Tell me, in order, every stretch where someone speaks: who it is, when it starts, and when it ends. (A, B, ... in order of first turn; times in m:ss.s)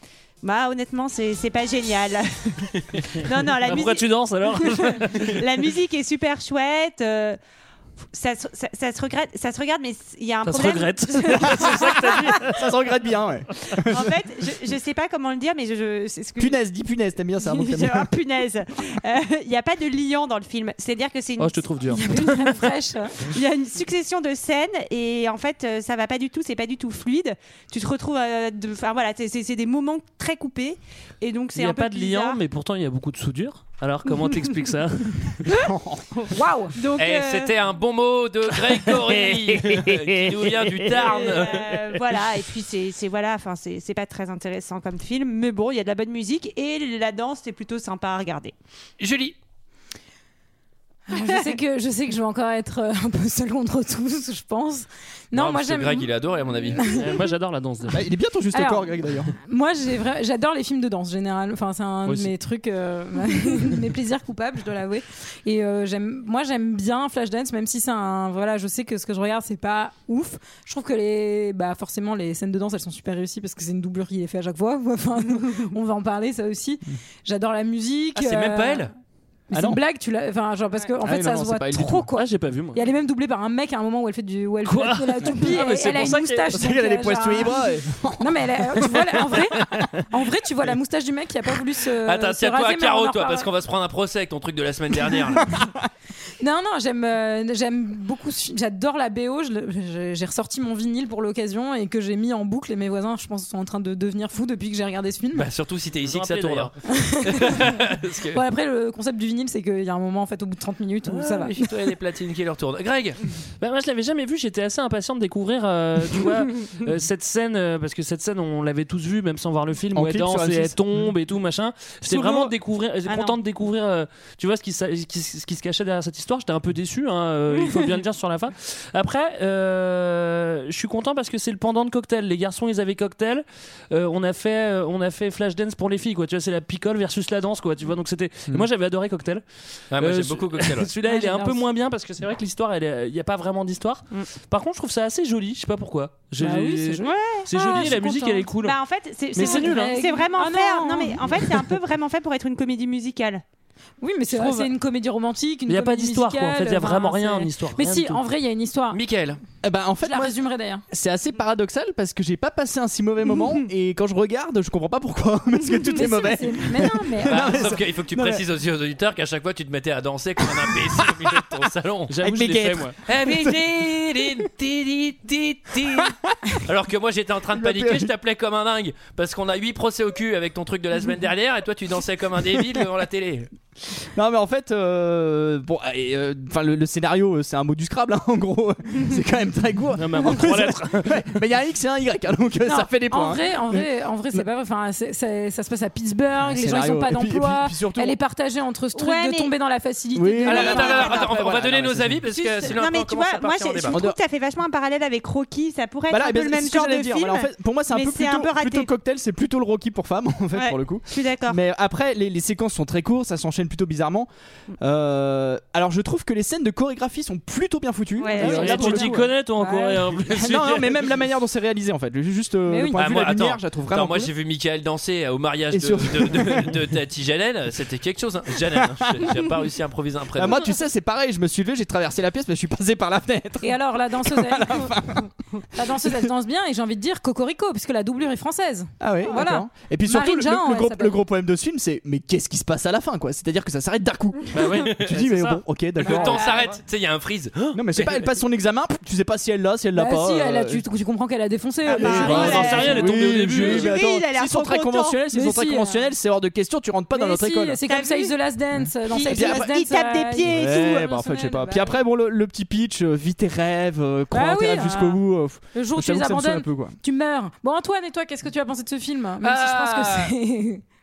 0:00.4-0:07.4 A
0:03.6-0:05.4 B
0:08.1-0:12.3 A
0:10.4-0:12.7 B
0:11.4-0:11.7 C
0:12.4-0:14.1 C
0:13.8-0:16.6 A
0:16.4-0:18.1 C
0:17.4-0:21.6 A
0:21.4-0:22.6 B
0:21.9-0:23.1 D
0:23.2-0:32.4 A
0:31.5-0:35.4 B
0:35.5-0:36.0 C
0:36.3-0:37.0 D
0:36.8-0:37.5 A
0:37.0-0:41.8 E
0:38.8-0:41.2 B
0:41.0-0:48.5 A
0:49.0-0:49.4 E
0:51.1-0:56.1 D
0:55.3-0:56.9 E
0:56.7-0:57.1 D
0:56.8-0:58.0 B
0:57.9-0:59.3 C
0:58.5-0:58.9 D
0:59.4-1:18.9 D
1:02.0-1:02.3 B
1:18.1-1:18.9 E
1:19.5-1:27.6 D
1:19.5-1:19.8 C
1:21.0-1:22.1 C
1:22.1-1:22.8 B
1:24.6-1:26.5 B
1:26.5-1:29.2 C
1:28.2-1:33.5 D
1:29.6-1:29.9 B
1:32.0-1:35.6 E
1:36.4-1:45.5 D
1:45.3-1:48.4 E
1:46.0-1:46.8 B
1:46.9-1:47.8 D
1:48.3-1:51.5 D
1:51.1-1:53.2 E
1:53.6-2:19.4 B
1:59.9-2:00.8 C
2:02.1-2:02.5 E
2:03.0-2:03.4 A
2:19.9-2:20.9 E
2:19.9-2:28.8 B
2:21.0-2:21.6 D
2:26.4-2:28.4 D
2:27.0-2:28.0 A
2:28.6-2:33.4 A
2:29.3-2:30.0 B
2:29.4-2:31.5 D
2:34.0-2:39.0 D
2:34.3-2:34.7 E
2:35.7-2:38.2 B
2:38.9-2:39.4 E
2:39.6-2:40.4 C
2:40.0-2:40.8 D
2:40.9-2:48.4 C
2:46.0-2:47.6 D
2:47.2-3:03.5 E
2:52.1-2:53.0 B
2:52.2-2:54.4 C
2:55.9-2:56.1 C
2:57.5-2:58.1 C
3:04.0-3:14.4 C
3:10.0-3:11.3 B
3:12.6-3:21.3 D
3:16.4-3:18.2 C
3:18.9-3:19.5 A
3:20.1-3:22.2 C
3:20.4-3:24.0 E
3:20.7-3:21.2 A
3:22.4-3:28.9 A
3:23.9-3:24.2 C
3:26.1-3:34.3 C
3:30.5-3:31.6 A
3:34.8-3:39.3 C
3:38.2-3:40.0 D
3:38.2-3:38.8 A
3:38.4-3:41.2 B
3:40.3-3:44.3 C
3:42.7-3:43.0 D
3:43.0-3:50.6 E
3:45.7-3:46.8 C
3:48.8-3:49.5 C
3:50.3-3:55.3 C
3:53.6-3:55.0 D
3:55.7-4:01.2 D
3:55.8-3:56.3 C
3:59.0-4:06.5 C
4:04.5-4:05.6 B
4:06.0-4:08.2 E
4:06.1-4:06.7 D
4:07.7-4:10.8 C
4:10.0-4:12.8 D
4:11.8-4:15.2 A
4:11.9-4:17.8 C
4:12.1-4:14.0 B
4:15.3-4:16.1 D
4:17.1-4:22.0 D
4:17.8-4:18.4 A
4:19.1-4:21.1 A
4:19.2-4:19.7 C
4:20.5-4:27.0 C
4:24.3-4:25.2 D
4:25.7-4:30.8 D
4:29.4-4:30.3 E